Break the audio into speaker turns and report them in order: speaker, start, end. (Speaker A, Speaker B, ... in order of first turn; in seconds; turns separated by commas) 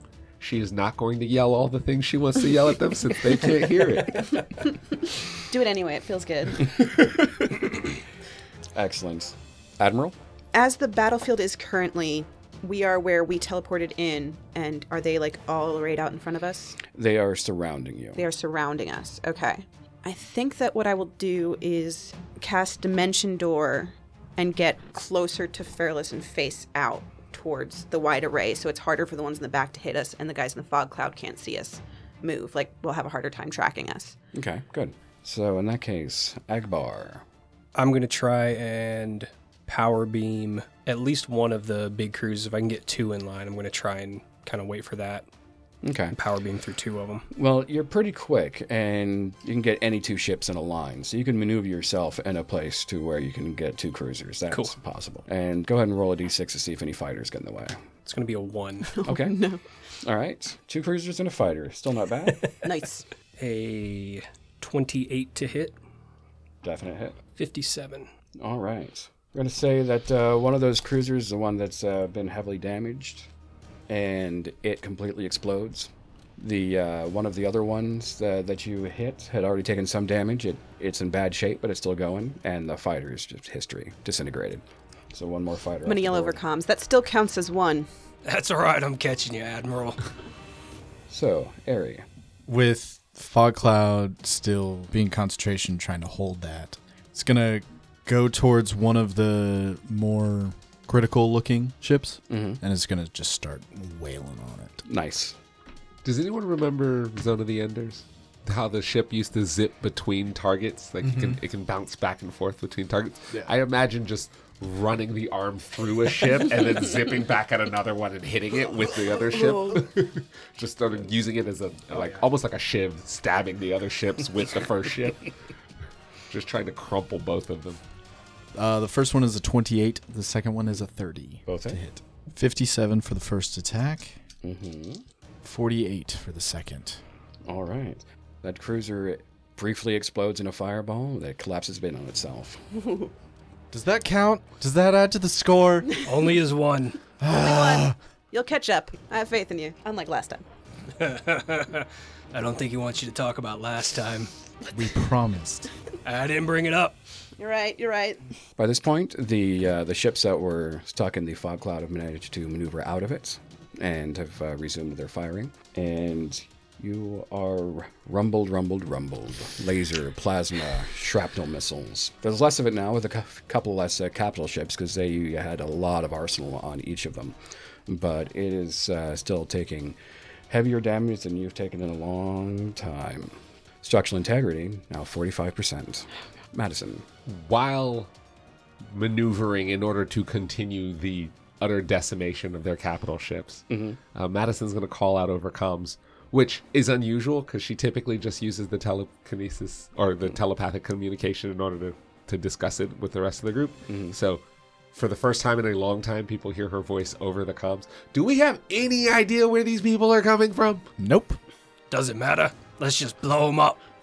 Speaker A: 0.4-4.3, Speaker B: 5.3-6.8, Speaker C: 8.8-10.2, Speaker B: 10.5-16.8, Speaker C: 16.9-18.2, Speaker B: 18.2-34.2, Speaker C: 34.3-37.2, Speaker D: 37.8-45.3, Speaker C: 45.8-46.1, Speaker D: 46.1-47.2, Speaker C: 47.3-57.8, Speaker D: 54.5-54.8, Speaker D: 58.0-58.9, Speaker B: 58.9-59.6, Speaker C: 59.0-59.4, Speaker C: 60.0-62.5, Speaker B: 62.6-63.0, Speaker D: 63.4-65.8, Speaker C: 66.6-67.2, Speaker D: 67.4-68.1, Speaker C: 68.4-73.3, Speaker C: 73.9-86.4, Speaker B: 85.9-87.9, Speaker D: 88.2-90.0, Speaker C: 91.1-92.0, Speaker E: 92.5-104.8, Speaker C: 102.3-102.6, Speaker C: 104.8-105.3, Speaker A: 106.0-125.3, Speaker E: 111.1-111.4, Speaker D: 121.9-122.2, Speaker A: 126.3-127.8, Speaker E: 128.5-134.2, Speaker C: 131.5-131.8, Speaker C: 134.4-135.0, Speaker E: 135.4-137.0, Speaker C: 137.5-142.7, Speaker E: 143.7-145.9, Speaker D: 146.0-147.0, Speaker E: 147.2-148.0, Speaker B: 147.3-150.4, Speaker D: 150.9-154.3, Speaker E: 154.7-155.7, Speaker D: 156.0-157.0, Speaker B: 157.4-158.2, Speaker C: 158.6-177.4, Speaker C: 177.9-180.0, Speaker C: 180.5-187.1, Speaker A: 187.3-188.1, Speaker A: 188.8-210.9, Speaker C: 193.7-194.0, Speaker C: 203.9-204.2, Speaker E: 211.0-211.4, Speaker D: 211.9-213.8